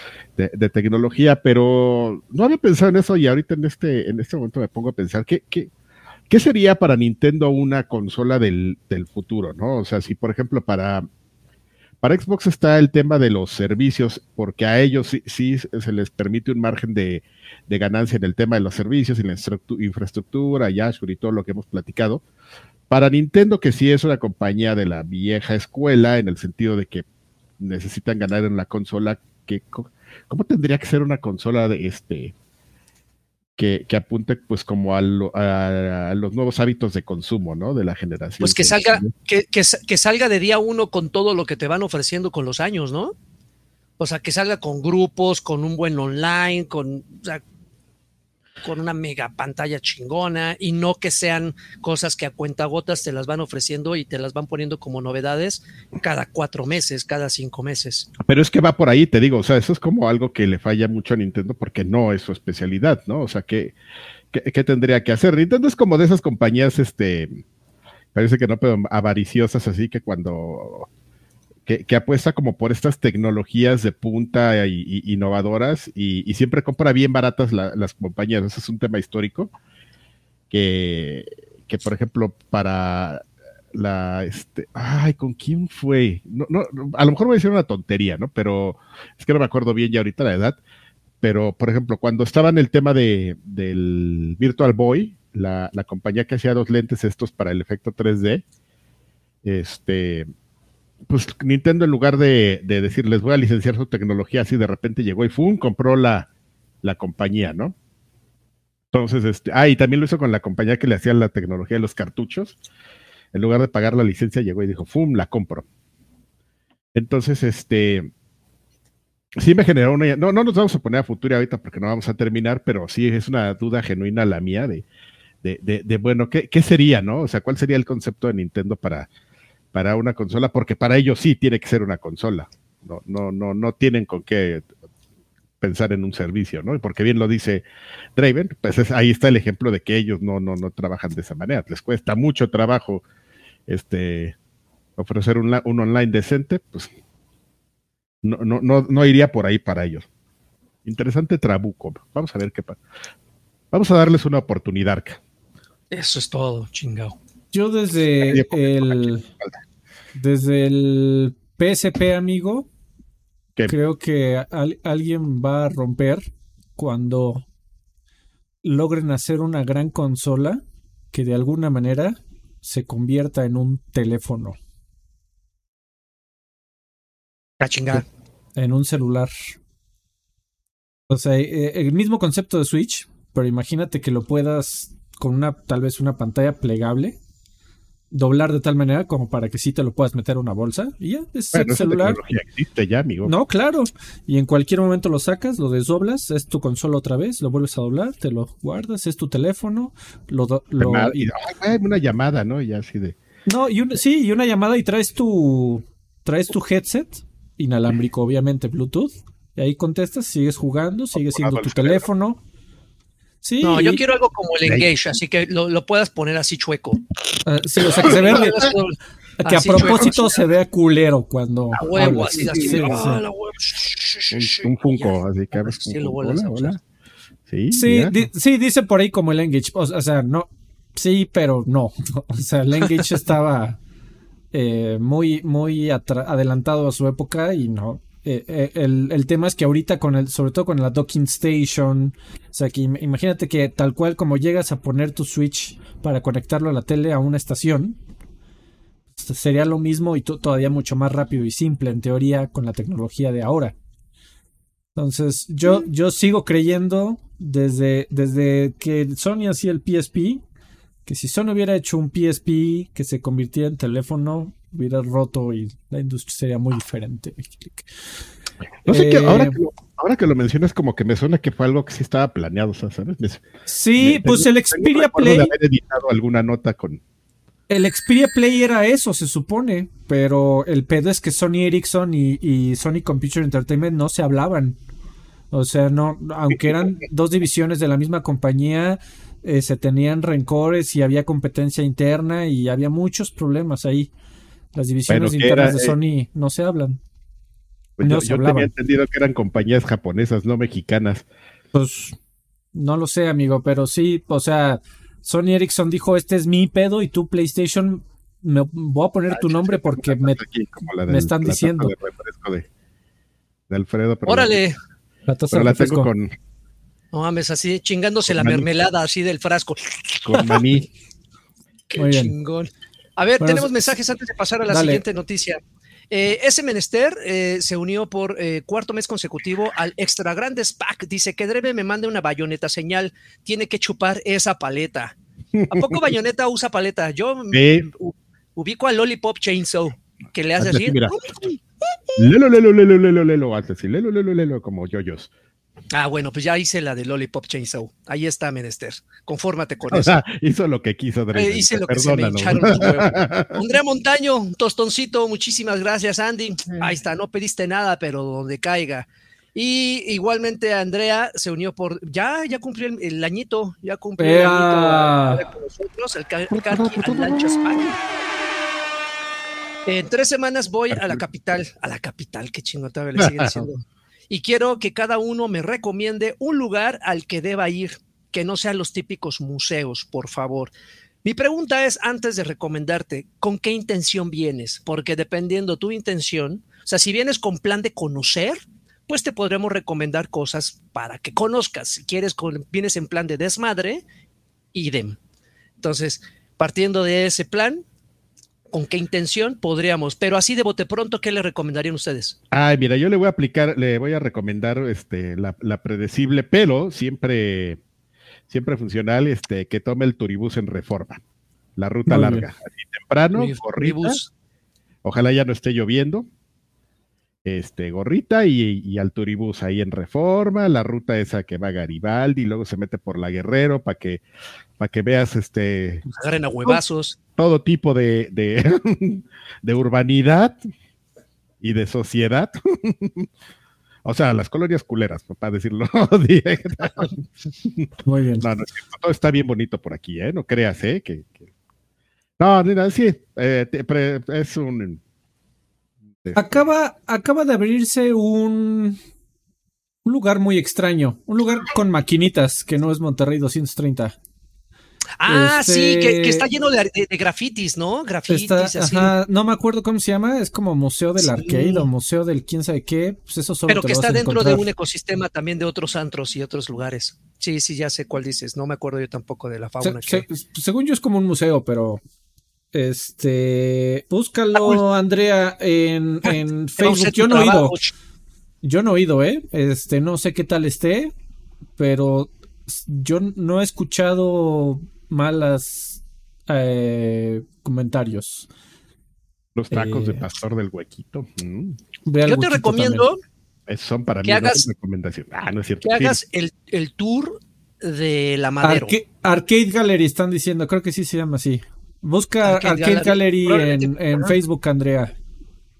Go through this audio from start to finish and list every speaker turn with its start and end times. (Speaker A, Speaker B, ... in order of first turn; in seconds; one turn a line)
Speaker A: 0.4-5.7
Speaker A: 6.3-11.1
Speaker A: 12.0-22.2
Speaker A: 22.9-27.0
Speaker A: 27.6-32.3
Speaker A: 33.6-39.1
Speaker B: 38.4-43.1
Speaker B: 44.0-47.4
Speaker B: 48.6-58.1
Speaker A: 58.2-63.7
Speaker A: 64.3-67.4
Speaker A: 68.1-70.9
Speaker A: 71.7-79.5
Speaker A: 80.5-90.6
Speaker A: 91.2-98.4
Speaker A: 99.4-100.3
Speaker A: 101.1-106.3
Speaker A: 106.8-107.7
Speaker A: 108.9-112.6
Speaker A: 113.3-115.6
Speaker A: 116.9-118.1
Speaker A: 119.4-124.8
Speaker A: 125.4-129.1
Speaker A: 129.7-134.6
Speaker A: 135.6-137.6
Speaker A: 138.2-143.0
Speaker A: 143.7-144.3
Speaker A: 145.0-146.9
Speaker A: 148.2-150.1
Speaker A: 150.8-152.8
Speaker A: 153.7-155.2
Speaker B: 155.9-157.2
Speaker C: 157.5-159.2
Speaker A: 158.2-159.6
Speaker C: 160.1-162.7
Speaker C: 163.7-167.4
Speaker C: 168.6-174.6
Speaker B: 177.6-178.0
Speaker C: 178.6-179.4
Speaker C: 181.1-187.2
Speaker C: 188.1-192.2
Speaker A: 191.5-193.3
Speaker C: 193.2-201.3
Speaker A: 200.8-203.2
Speaker C: 203.4-212.4
Speaker A: 211.2-212.1
Speaker C: 213.4-214.0
Speaker B: 213.6-217.0
Speaker C: 217.4-218.7
Speaker B: 218.0-220.4
Speaker C: 219.4-223.2
Speaker B: 221.8-226.7
Speaker A: 224.3-226.8
Speaker A: 227.5-228.2
Speaker C: 227.7-233.8
Speaker C: 234.5-248.0
Speaker C: 249.2-253.7
Speaker C: 254.9-260.4
Speaker C: 261.1-267.9
Speaker A: 268.8-273.4
Speaker C: 268.9-269.6
Speaker C: 273.7-275.5
Speaker A: 274.0-277.0
Speaker C: 277.7-284.8
Speaker C: 285.5-294.1
Speaker C: 294.7-297.0
Speaker A: 295.1-295.9
Speaker A: 298.0-301.2
Speaker C: 298.0-298.7
Speaker C: 301.7-302.2
Speaker C: 302.7-310.4
Speaker A: 309.3-312.7
Speaker C: 311.1-311.9
Speaker A: 313.7-314.6
Speaker B: 314.2-314.8
Speaker C: 315.3-316.1
Speaker A: 315.5-316.3
Speaker B: 317.1-320.6
Speaker A: 318.3-318.6
Speaker A: 320.2-320.9
Speaker B: 321.9-335.1
Speaker C: 321.9-322.3
Speaker C: 323.4-323.9
Speaker C: 324.7-325.0
Speaker A: 335.5-335.9
Speaker B: 335.7-341.6
Speaker A: 337.5-337.9
Speaker A: 340.6-341.5
Speaker A: 342.2-345.3
Speaker B: 345.9-350.2
Speaker A: 349.9-353.6
Speaker B: 351.3-367.9
Speaker C: 364.2-365.4
Speaker A: 366.5-367.9
Speaker B: 369.9-380.7
Speaker A: 370.9-371.2
Speaker A: 373.2-373.7
Speaker B: 381.2-394.0
Speaker B: 394.7-395.2
Speaker B: 395.8-397.8
Speaker B: 398.7-402.4
Speaker A: 402.5-407.8
Speaker A: 408.5-411.2
Speaker A: 411.8-414.2
Speaker C: 412.1-412.5
Speaker B: 413.3-414.3
Speaker A: 415.0-416.3
Speaker A: 417.4-424.2
Speaker A: 424.8-426.0
Speaker B: 426.1-427.2
Speaker A: 427.4-430.6
Speaker A: 431.6-433.3
Speaker A: 434.0-441.4
Speaker C: 438.0-438.4
Speaker A: 442.4-445.0
Speaker A: 446.2-446.6
Speaker C: 446.3-449.0
Speaker C: 450.0-454.1
Speaker B: 455.2-459.1
Speaker C: 455.2-456.5
Speaker C: 458.3-464.7
Speaker B: 461.2-461.9
Speaker B: 463.7-470.2
Speaker C: 469.8-472.0
Speaker C: 472.7-477.8
Speaker B: 474.5-474.8
Speaker B: 476.2-477.9
Speaker C: 478.6-481.1
Speaker C: 481.8-488.5
Speaker A: 489.5-491.8
Speaker C: 489.7-490.2
Speaker C: 492.1-493.0
Speaker B: 492.2-493.2
Speaker A: 493.7-496.2
Speaker B: 494.2-494.6
Speaker B: 495.8-499.0
Speaker C: 498.6-505.1
Speaker B: 502.4-504.4